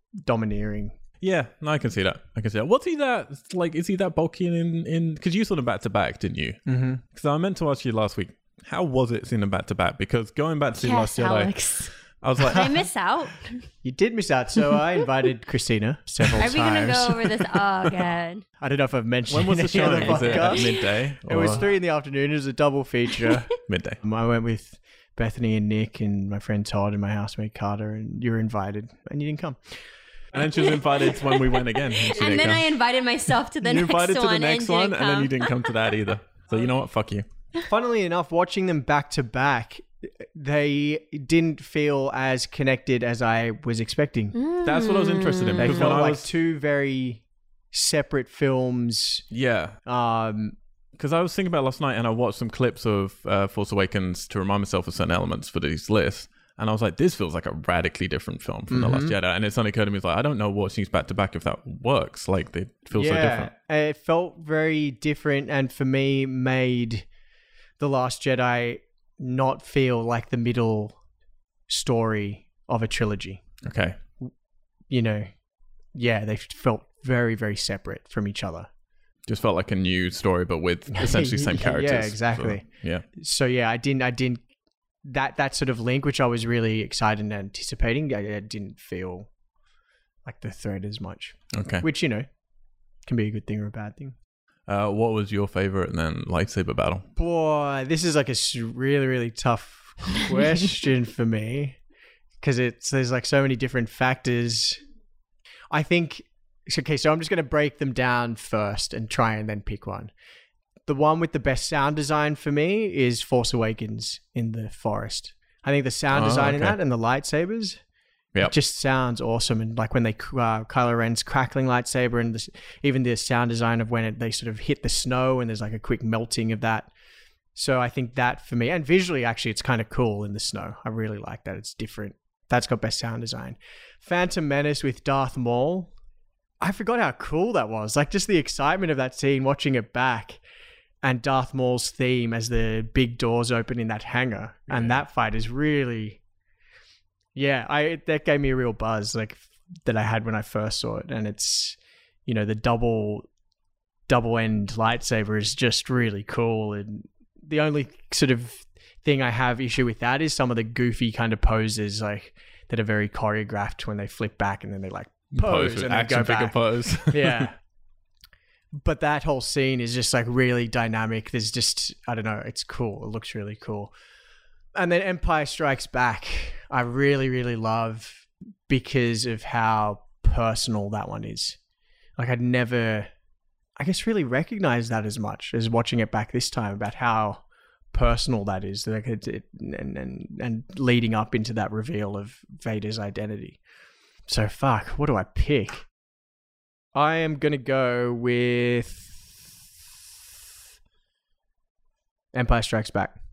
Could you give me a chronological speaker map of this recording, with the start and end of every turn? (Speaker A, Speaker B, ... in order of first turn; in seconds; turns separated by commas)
Speaker A: 0.2-1.0, Speaker B: 1.2-11.6, Speaker A: 6.7-7.0, Speaker C: 10.8-13.7, Speaker B: 12.2-12.8, Speaker A: 13.8-17.6, Speaker C: 16.4-18.4, Speaker A: 18.6-29.6, Speaker B: 19.3-21.6, Speaker C: 19.8-20.9, Speaker B: 23.7-24.0, Speaker B: 30.3-32.8, Speaker C: 30.5-35.7, Speaker B: 33.6-37.3, Speaker A: 37.6-44.4, Speaker C: 44.4-45.9, Speaker B: 44.6-46.3, Speaker A: 45.6-49.2, Speaker B: 49.3-49.8, Speaker A: 49.9-50.5, Speaker B: 51.0-63.5, Speaker A: 58.7-59.2, Speaker A: 62.9-67.1, Speaker A: 67.8-71.0, Speaker A: 71.7-73.4, Speaker B: 73.6-74.0, Speaker A: 74.9-75.3, Speaker A: 75.9-78.7, Speaker B: 79.3-83.0, Speaker A: 80.9-84.4, Speaker A: 85.0-89.3, Speaker A: 90.2-92.3, Speaker B: 91.5-91.9, Speaker A: 93.1-94.2, Speaker B: 94.7-97.1, Speaker A: 97.2-101.8, Speaker A: 102.4-104.8, Speaker A: 105.7-110.1, Speaker A: 110.9-117.8, Speaker B: 116.1-116.8, Speaker A: 118.4-126.9, Speaker A: 127.5-135.9, Speaker A: 136.6-140.4, Speaker A: 141.0-146.2, Speaker A: 147.3-153.3, Speaker A: 154.1-167.6, Speaker B: 165.3-167.5, Speaker A: 168.7-173.9, Speaker A: 174.8-181.6, Speaker A: 182.2-183.1, Speaker A: 183.8-193.6, Speaker A: 194.3-195.9, Speaker A: 196.9-199.5, Speaker A: 202.3-203.2